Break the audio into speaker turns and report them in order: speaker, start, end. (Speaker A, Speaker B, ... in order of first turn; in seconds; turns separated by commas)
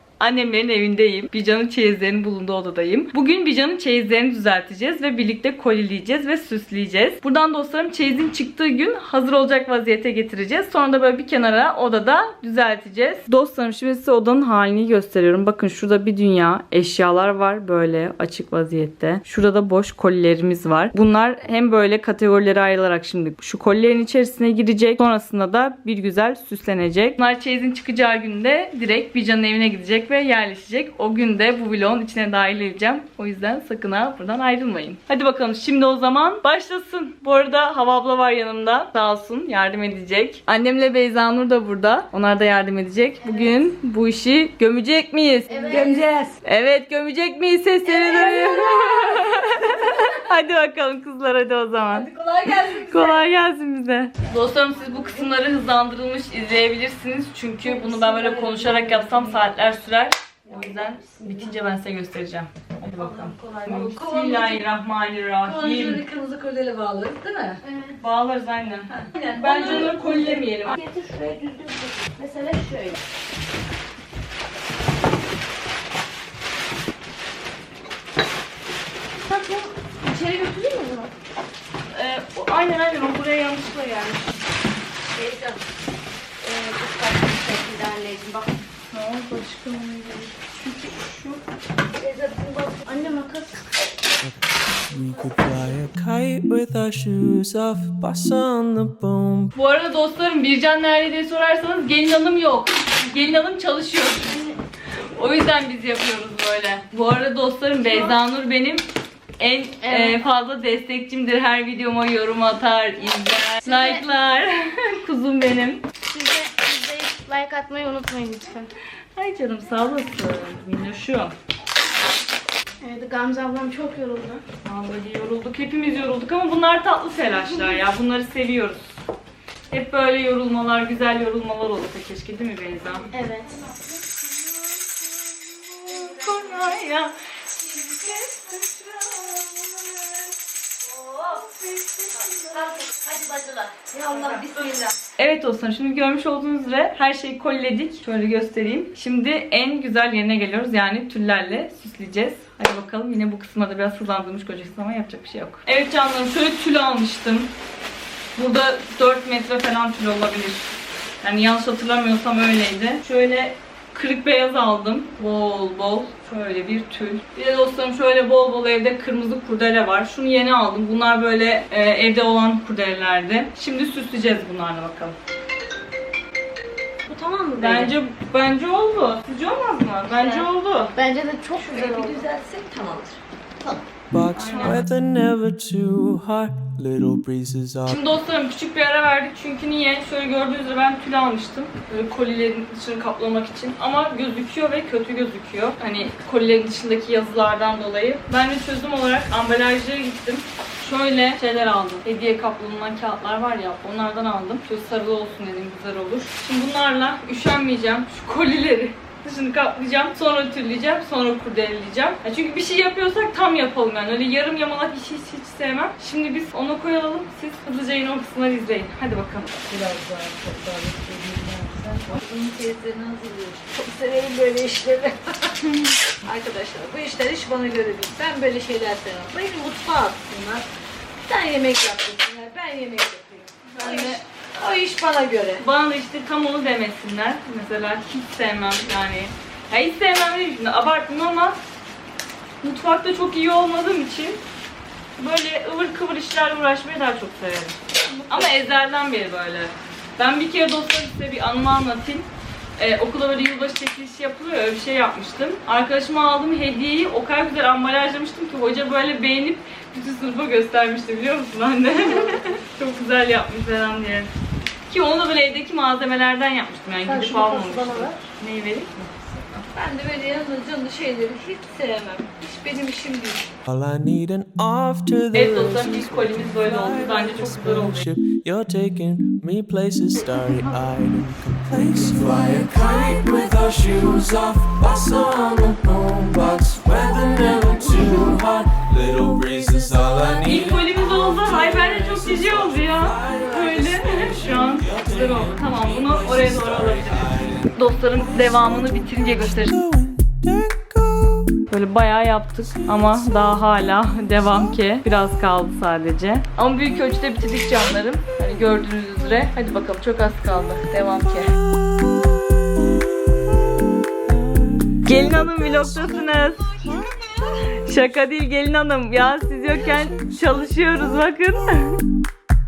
Speaker A: 0.2-66.0, Speaker B: 45.5-46.1, Speaker C: 45.5-46.3, Speaker B: 48.0-48.6, Speaker C: 51.9-53.2, Speaker C: 57.7-59.3, Speaker C: 62.9-64.6, Speaker C: 65.4-67.6, Speaker B: 67.7-67.9, Speaker A: 68.0-70.8, Speaker C: 69.0-73.0, Speaker B: 79.3-81.1, Speaker A: 81.9-84.3, Speaker C: 85.2-85.6, Speaker B: 86.4-88.5, Speaker A: 88.9-91.4, Speaker C: 92.0-92.8, Speaker B: 92.0-93.6, Speaker D: 94.2-99.5, Speaker A: 99.5-104.5, Speaker A: 105.2-108.8, Speaker A: 109.4-115.8, Speaker B: 109.8-110.2, Speaker B: 113.7-114.0, Speaker B: 116.0-118.7, Speaker A: 119.2-121.3, Speaker B: 122.8-124.4, Speaker A: 124.7-129.0, Speaker A: 129.7-133.1, Speaker B: 133.1-133.5, Speaker A: 134.9-140.2, Speaker B: 141.1-141.4, Speaker C: 142.4-144.8, Speaker B: 143.9-144.9, Speaker A: 145.2-157.5, Speaker A: 158.4-160.7, Speaker A: 161.2-175.2, Speaker B: 177.1-177.9, Speaker A: 177.6-180.9, Speaker B: 180.1-180.4, Speaker B: 181.0-182.2, Speaker C: 181.5-183.2, Speaker D: 184.1-188.1, Speaker A: 184.3-184.9, Speaker A: 187.9-219.7, Speaker C: 219.7-225.6, Speaker C: 226.2-230.7, Speaker C: 231.2-235.7, Speaker A: 233.8-234.2, Speaker A: 235.6-241.6, Speaker A: 242.6-244.4, Speaker A: 245.2-247.8, Speaker A: 248.3-252.3, Speaker A: 252.8-264.3, Speaker A: 264.9-268.9, Speaker C: 267.1-268.1, Speaker C: 269.5-273.5, Speaker D: 273.7-301.6, Speaker A: 275.3-278.0, Speaker A: 290.4-299.8, Speaker A: 301.7-311.5, Speaker D: 302.7-304.7, Speaker D: 311.8-313.4, Speaker D: 314.2-315.9, Speaker A: 315.0-316.8, Speaker A: 317.7-322.0